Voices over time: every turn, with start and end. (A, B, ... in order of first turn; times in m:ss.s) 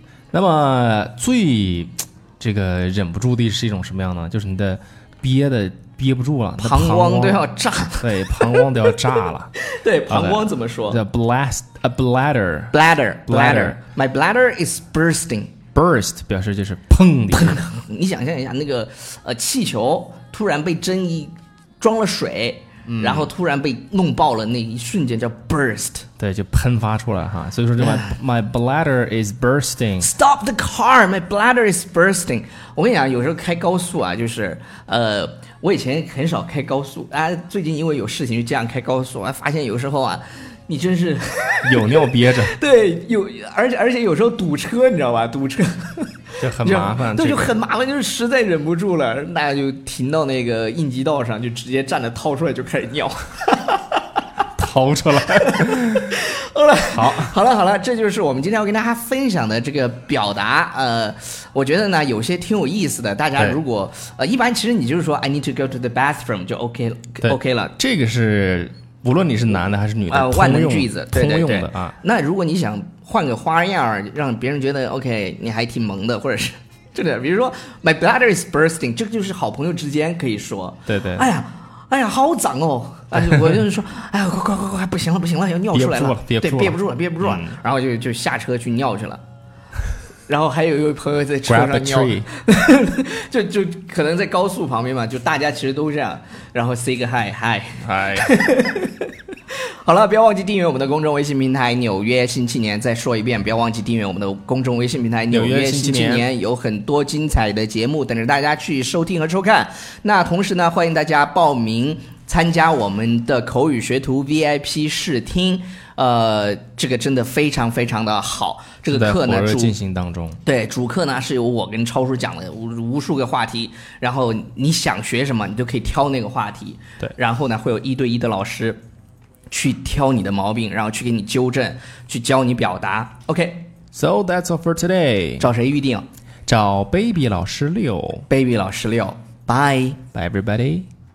0:00.3-0:07.4 A
0:06.6-0:08.6 B
0:08.0-0:09.5 A
0:09.6-0:11.0 B
0:10.1-0:13.8 A
0:12.7-0:15.5 B
0:15.8-0:17.6 A
0:17.3-0:26.1 B
0:22.9-0:23.3 A
0:26.2-0:30.1 A
0:27.8-0:28.1 B
0:30.0-0:54.0 B
0:41.6-0:42.6 A
0:46.4-0:47.6 A
0:54.6-0:56.2 A
0:56.1-1:07.8 B
0:56.9-0:57.4 A
1:07.2-1:12.0 A
1:10.1-1:29.2 B
1:20.9-1:21.3 A
1:25.7-1:27.6 A
1:30.3-1:59.8 B
1:31.5-1:32.3 A
1:37.8-1:38.3 A
1:45.3-1:46.3 A
1:58.9-2:00.4 A
2:00.4-2:08.8 B
2:09.5-2:13.7 B
2:13.9-2:15.5 A
2:15.4-2:16.0 B
2:16.5-2:18.3 A
2:18.3-2:20.0 B
2:20.1-2:20.9 A